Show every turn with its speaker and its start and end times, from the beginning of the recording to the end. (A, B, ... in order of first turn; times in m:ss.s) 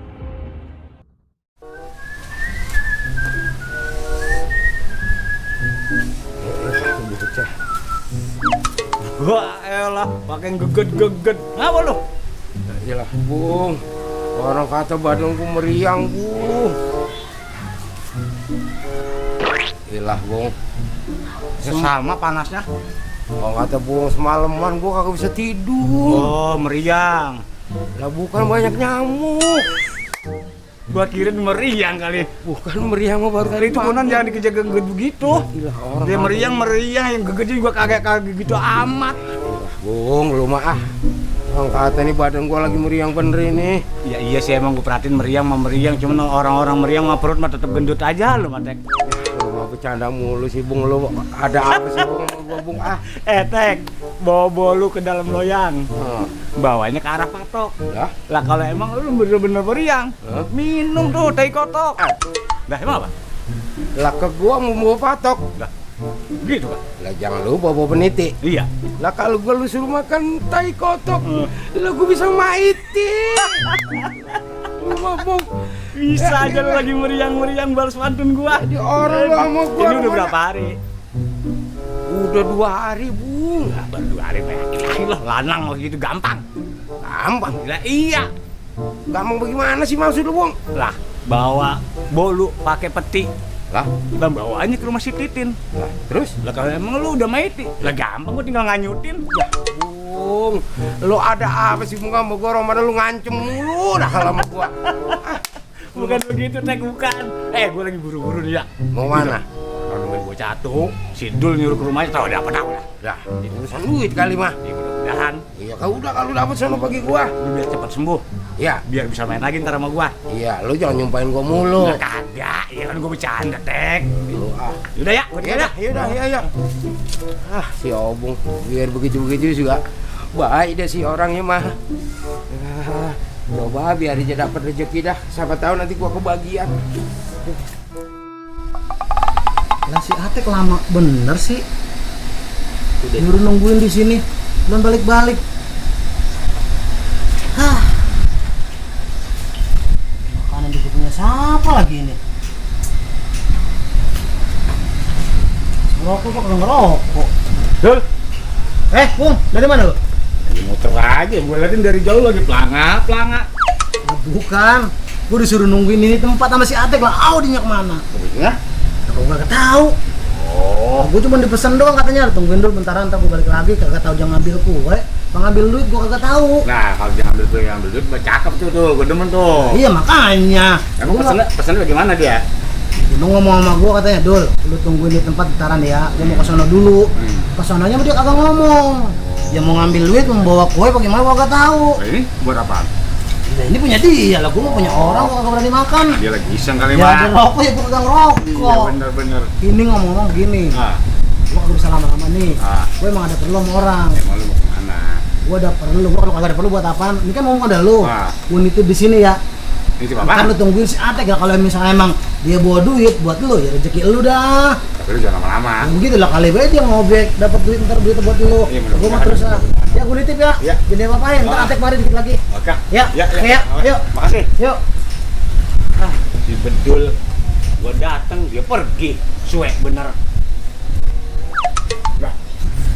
0:06.4-0:07.5 A
0:09.1-0:12.0 B
0:12.6-0:13.8 A
0:14.3-0:16.8 A
0:19.9-0:20.5 A
0:21.6-0:22.6 B
0:21.6-0:21.9 A
0:23.4-0:26.3 A
0:26.1-0:27.4 B
0:28.0-0:29.7 A
0:30.9-0:32.3 B
0:32.4-0:34.4 A
0:33.5-0:35.4 B
0:35.5-0:36.6 A
0:36.0-0:39.2 B
0:39.3-0:40.8 A
0:41.5-0:43.8 A
0:44.0-0:48.8 B
0:49.0-0:53.0 A
0:51.7-0:52.1 B
0:53.1-0:55.8 B
0:56.0-0:56.3 A
0:56.6-0:57.7 B
0:57.9-0:58.1 A
0:58.3-1:02.0 B
1:02.7-1:03.1 B
1:04.0-1:05.5 A
1:06.4-1:06.8 B
1:07.0-1:08.4 A
1:08.4-1:08.7 B
1:09.0-1:13.8 A
1:11.2-1:11.5 B
1:13.6-1:14.3 B
1:14.7-1:16.9 A
1:15.9-1:20.8 B
1:18.5-1:20.4 A
1:22.1-1:23.8 A
1:23.6-1:26.4 B
1:27.0-1:27.6 A
1:27.6-1:28.3 B
1:29.1-1:30.6 A
1:30.7-1:33.3 B
1:34.1-1:35.6 B
1:35.7-1:36.4 A
1:36.4-1:39.2 B
1:39.3-1:45.4 A
1:44.9-1:45.3 B
1:45.9-1:52.9 B
1:48.9-1:49.4 A
1:53.0-1:54.6 A
1:54.6-1:55.4 B
1:55.5-1:57.3 A
1:57.4-1:58.2 B
1:58.6-1:58.8 A
1:58.9-2:00.1 B
2:00.3-2:02.0 A
2:01.8-2:04.2 B
2:04.2-2:04.9 A
2:04.9-2:06.2 B
2:05.4-2:06.5 A
2:07.3-2:11.8 A
2:12.5-2:16.8 A
2:19.9-2:21.6 C
2:23.1-2:25.4 C
2:27.5-2:28.0 C
2:30.2-2:32.2 C
2:35.9-2:37.3 C
2:38.9-2:40.0 C
2:40.5-2:43.5 B
2:44.0-2:48.0 C
2:48.1-2:48.6 B
2:49.1-2:49.9 C
2:50.3-2:51.1 B
2:51.0-2:56.6 C
2:56.6-2:59.8 B
2:59.6-3:01.4 C
3:01.0-3:02.4 B
3:03.0-3:12.0 C
3:06.2-3:06.5 B
3:07.2-3:07.5 B
3:09.2-3:09.8 B
3:12.0-3:12.9 B
3:13.5-3:16.2 C
3:14.6-3:15.3 B
3:16.2-3:17.4 B
3:16.9-3:18.9 C
3:18.4-3:19.5 B
3:19.6-3:20.8 C
3:20.7-3:21.0 B
3:21.5-3:24.2 C
3:22.6-3:22.9 B
3:24.1-3:25.2 B
3:25.4-3:29.4 C
3:28.0-3:28.3 B
3:30.0-3:30.5 B
3:30.2-3:34.8 C
3:35.0-3:35.9 B
3:35.8-3:42.4 C
3:38.7-3:40.0 B
3:41.4-3:41.7 B
3:42.5-3:44.5 B
3:42.9-3:44.0 C
3:46.0-3:47.1 B
3:47.8-3:50.2 B